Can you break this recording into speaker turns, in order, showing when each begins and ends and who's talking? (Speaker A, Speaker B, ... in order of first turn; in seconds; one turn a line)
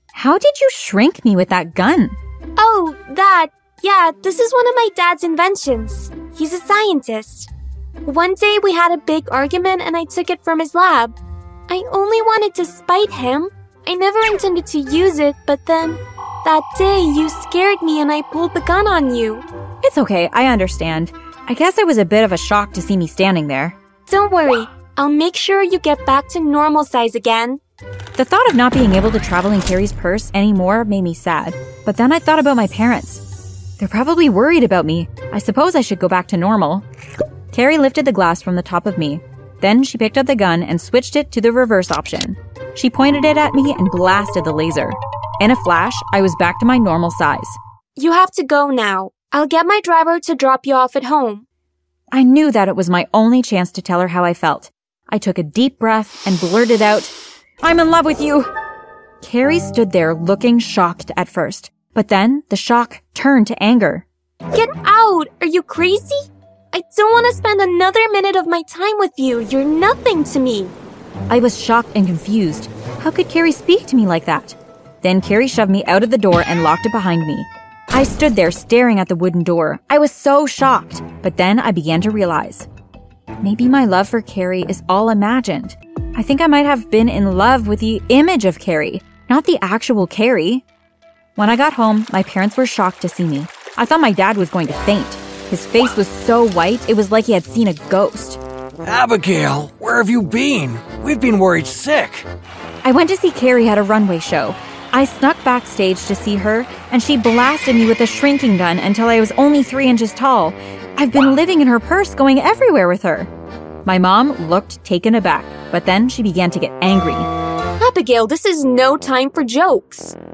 Speaker A: 0.1-2.2
Speaker B: 2.6-7.5
Speaker B: 8.1-11.2
Speaker B: 11.7-19.4
Speaker A: 19.8-23.8
Speaker B: 24.1-27.6
Speaker A: 28.2-33.2
Speaker A: 33.8-36.9
Speaker A: 37.5-47.6
Speaker B: 48.0-51.5
Speaker A: 52.1-57.1
Speaker A: 57.6-58.5
Speaker A: 59.2-64.1
Speaker B: 64.5-70.7
Speaker A: 71.3-82.7
Speaker A: 83.4-90.6
Speaker A: 91.4-98.4
Speaker C: 98.8-102.3
Speaker A: 102.8-113.3
Speaker A: 113.9-117.3
Speaker B: 117.8-120.2